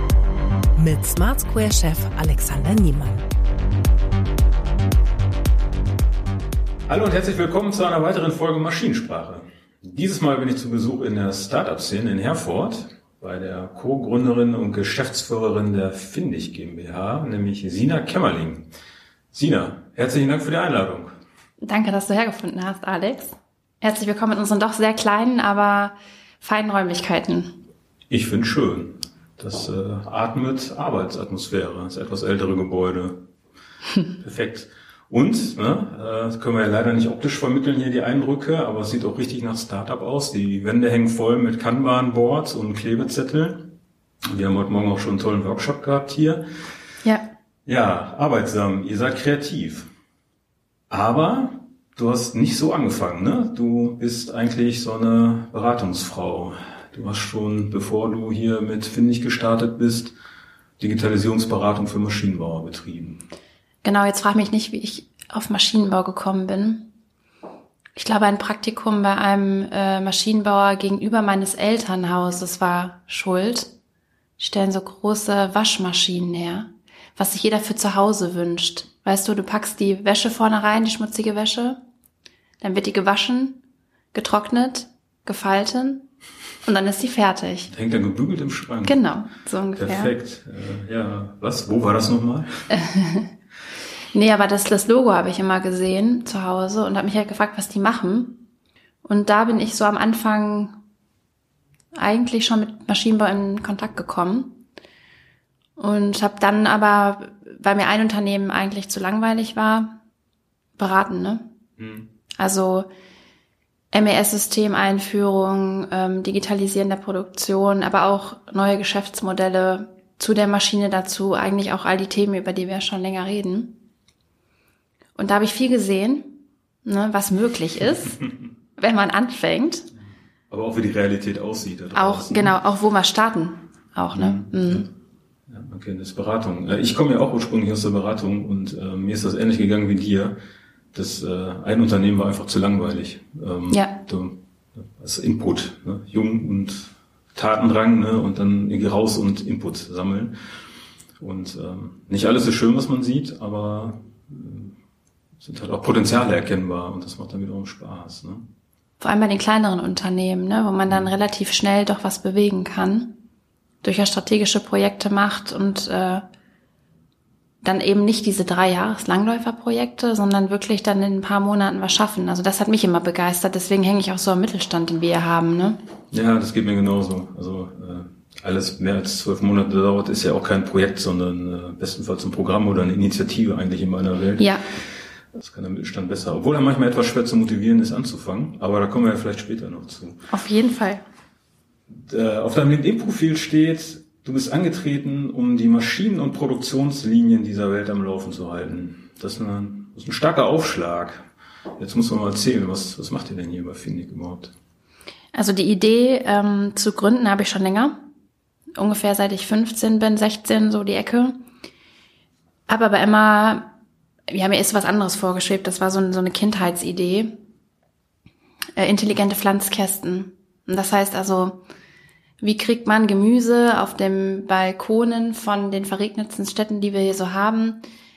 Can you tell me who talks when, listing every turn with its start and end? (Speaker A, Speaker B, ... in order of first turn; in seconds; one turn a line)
Speaker A: 0.8-3.2
Speaker B: 6.9-18.7
Speaker B: 19.3-21.1
Speaker C: 21.6-27.5
Speaker B: 28.1-33.3
Speaker B: 34.2-43.7
Speaker B: 44.3-46.4
Speaker B: 47.6-49.9
Speaker B: 50.9-60.1
Speaker B: 60.8-63.2
Speaker C: 63.8-66.9
Speaker C: 68.0-73.7
Speaker C: 74.4-81.8
Speaker C: 82.6-83.6
Speaker C: 84.1-86.0
Speaker C: 86.6-87.7
Speaker B: 87.7-89.0
Speaker C: 88.8-90.1
Speaker B: 89.8-92.5
Speaker C: 92.7-93.3
Speaker C: 94.1-98.4
Speaker C: 99.0-100.8
Speaker C: 102.0-104.6
Speaker C: 105.8-110.0
Speaker C: 110.8-111.5
Speaker B: 111.8-112.1
Speaker C: 112.4-112.9
Speaker C: 113.9-123.8
Speaker C: 125.2-128.2
Speaker C: 128.8-129.9
Speaker B: 130.5-132.5
Speaker C: 131.9-134.9
Speaker B: 134.1-134.9
Speaker B: 135.5-140.4
Speaker B: 140.9-150.3
Speaker C: 143.7-144.0
Speaker B: 151.2-154.8
Speaker B: 155.4-158.5
Speaker C: 159.0-163.2
Speaker B: 160.9-161.1
Speaker C: 163.8-166.2
Speaker C: 167.6-175.8
Speaker B: 176.1-184.6
Speaker B: 185.3-190.2
Speaker C: 190.3-191.0
Speaker B: 191.9-201.2
Speaker B: 201.8-204.5
Speaker C: 205.3-208.0
Speaker C: 208.8-211.4
Speaker C: 212.7-213.7
Speaker C: 214.3-217.3
Speaker C: 218.8-221.6
Speaker C: 222.4-227.8